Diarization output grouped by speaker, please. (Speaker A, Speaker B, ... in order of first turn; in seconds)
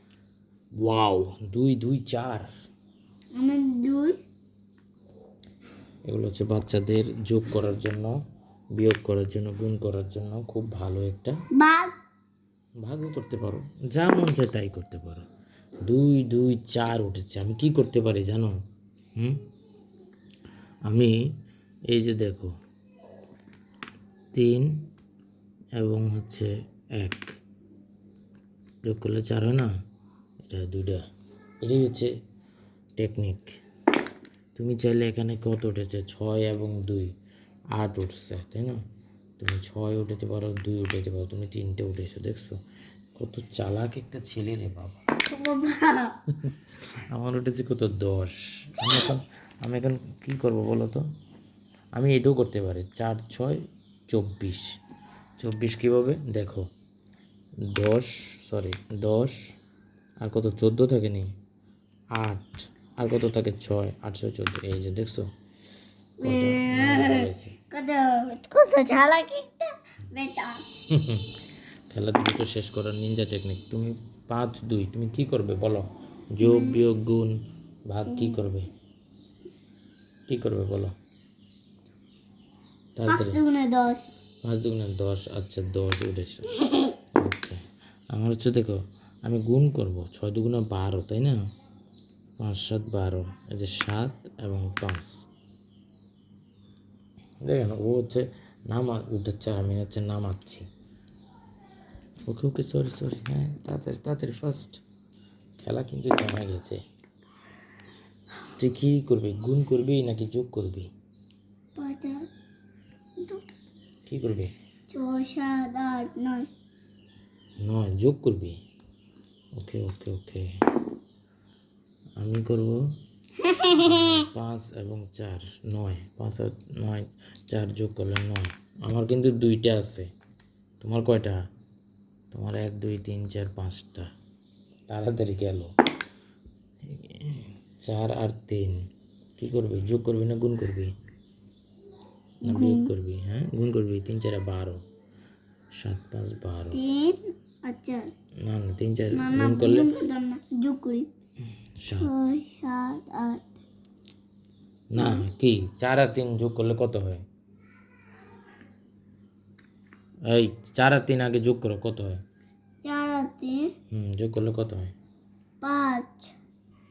Speaker A: 0.8-2.5, 6.1-8.1, 8.8-11.3, 12.8-15.2, 15.8-18.5, 21.9-22.5, 24.3-24.7, 25.8-27.3, 28.8-29.7, 30.4-31.0, 31.6-32.1, 33.0-33.5, 34.5-37.1, 37.8-38.8, 39.4-42.5, 43.1-45.0, 47.1-51.0, 52.0-54.6, 55.4-56.7, 57.7-59.4, 60.2-61.3, 62.2-65.2, 66.2-67.5, 70.9-71.2, 71.9-77.3, 77.9-78.7, 80.3-80.9, 83.0-83.4, 84.4-86.5, 87.1-87.6, 88.1-91.4, 92.4-95.1, 97.4-100.7, 102.3-104.8, 105.6-106.8, 108.6-110.9, 114.1-114.5, 117.6-118.6, 119.6-120.4, 122.2-122.8, 123.7-130.1, 130.8-131.3, 132.3-134.1, 134.9-135.7, 137.0-138.8, 139.4-140.9, 142.4-144.8, 145.8-146.8, 148.4-149.9, 151.8-152.1, 154.9-157.2, 160.3-162.2, 163.9-164.9
Speaker B: 3.4-4.2, 11.6-11.9, 45.3-46.1, 66.2-70.6, 76.4-76.8, 78.1-78.4, 83.1-84.0, 111.8-112.3, 113.2-113.5, 114.9-116.5, 123.4-124.2, 142.4-142.9, 146.7-148.1, 149.1-151.1, 152.0-153.4, 155.0-155.2, 162.8-163.7, 165.6-166.3